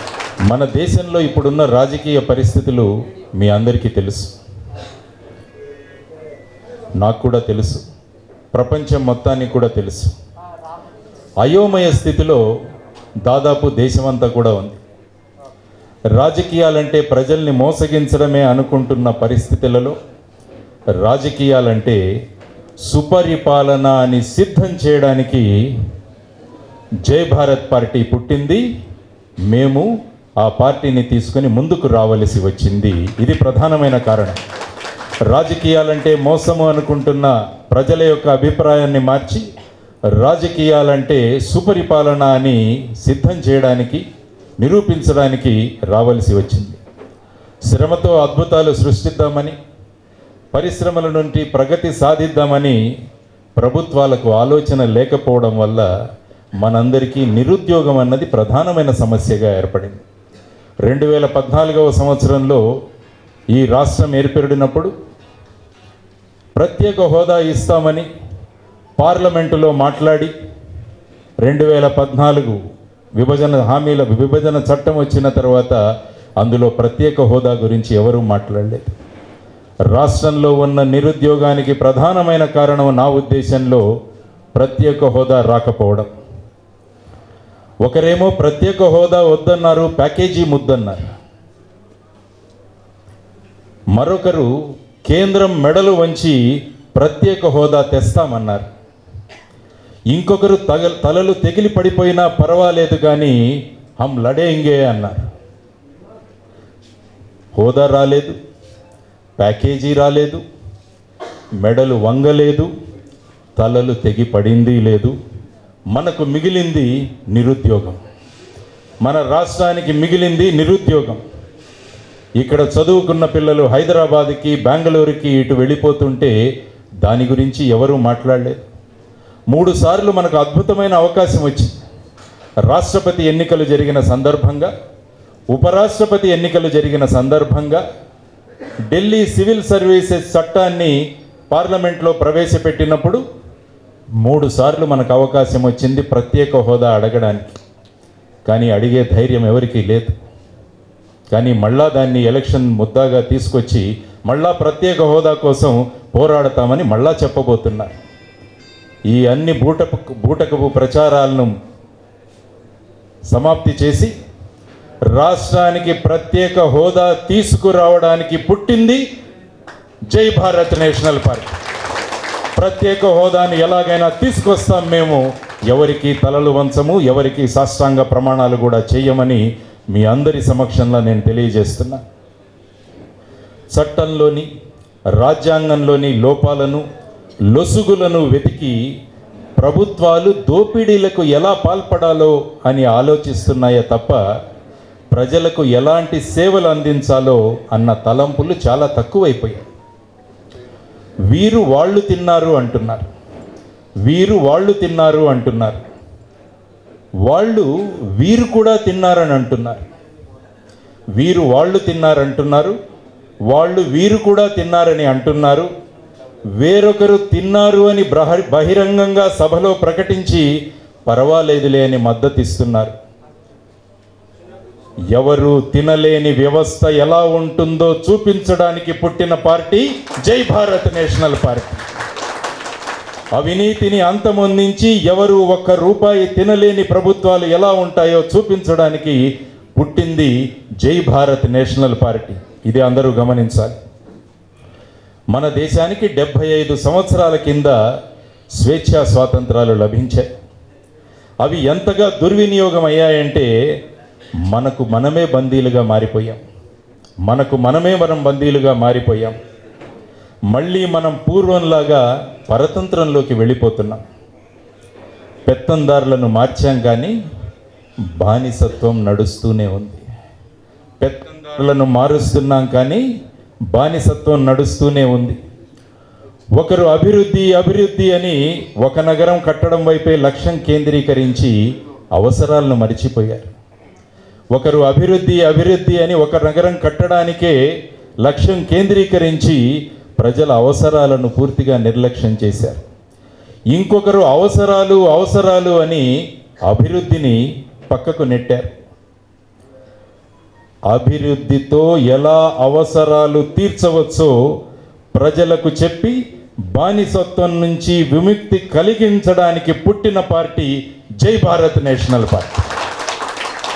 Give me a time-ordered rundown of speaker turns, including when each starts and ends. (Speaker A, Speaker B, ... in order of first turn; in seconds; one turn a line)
Speaker A: 0.5-4.3
Speaker A: 7.0-7.8
Speaker A: 8.5-10.1
Speaker A: 11.4-12.4
Speaker A: 13.2-14.8
Speaker A: 16.1-19.9
Speaker A: 21.0-22.0
Speaker A: 22.8-25.4
Speaker A: 27.0-28.6
Speaker A: 29.5-29.9
Speaker A: 30.4-34.4
Speaker A: 35.3-39.5
Speaker A: 40.2-44.0
Speaker A: 44.6-46.8
Speaker A: 47.6-49.5
Speaker A: 50.5-52.8
Speaker A: 53.6-55.9
Speaker A: 56.6-60.0
Speaker A: 60.8-62.6
Speaker A: 63.5-64.9
Speaker A: 66.5-68.1
Speaker A: 69.0-70.3
Speaker A: 71.4-72.6
Speaker A: 73.2-75.8
Speaker A: 76.4-78.9
Speaker A: 79.9-83.8
Speaker A: 84.5-86.1
Speaker A: 87.8-91.0
Speaker A: 93.9-94.5
Speaker A: 95.0-96.4
Speaker A: 96.9-98.7
Speaker A: 100.1-103.3
Speaker A: 104.0-105.2
Speaker A: 107.5-108.4
Speaker A: 109.4-110.4
Speaker A: 111.6-112.7
Speaker A: 113.5-115.1
Speaker A: 115.9-118.0
Speaker A: 119.0-121.2
Speaker A: 122.4-126.3
Speaker A: 127.0-128.6
Speaker A: 129.5-131.8
Speaker A: 132.7-134.7
Speaker A: 135.5-137.8
Speaker A: 138.9-140.9
Speaker A: 141.5-143.2
Speaker A: 144.2-147.6
Speaker A: 148.4-150.1
Speaker A: 151.3-157.9
Speaker A: 159.1-161.5
Speaker A: 163.3-164.1
Speaker A: 165.1-169.0
Speaker A: 170.1-171.5
Speaker A: 172.5-182.0
Speaker A: 183.7-184.5
Speaker A: 185.2-186.8
Speaker A: 187.5-188.8
Speaker A: 189.6-194.2
Speaker A: 195.1-199.7
Speaker A: 201.3-203.0
Speaker A: 204.1-205.8
Speaker A: 207.2-209.8
Speaker A: 211.2-212.8
Speaker A: 213.5-215.7
Speaker A: 216.6-220.4
Speaker A: 221.1-222.9
Speaker A: 225.1-231.8
Speaker A: 233.3-239.2
Speaker A: 239.7-243.8
Speaker A: 245.3-247.7
Speaker A: 248.6-250.3
Speaker A: 251.4-253.5
Speaker A: 254.5-256.4
Speaker A: 257.3-259.3
Speaker A: 260.5-264.0
Speaker A: 265.4-267.1
Speaker A: 268.2-270.0
Speaker A: 271.0-273.0
Speaker A: 273.7-275.4
Speaker A: 276.6-281.5
Speaker A: 282.1-283.5
Speaker A: 284.5-287.5
Speaker A: 288.2-289.6
Speaker A: 290.2-292.8
Speaker A: 293.7-296.0
Speaker A: 296.7-298.7
Speaker A: 300.9-304.3
Speaker A: 305.1-306.1
Speaker A: 306.7-312.6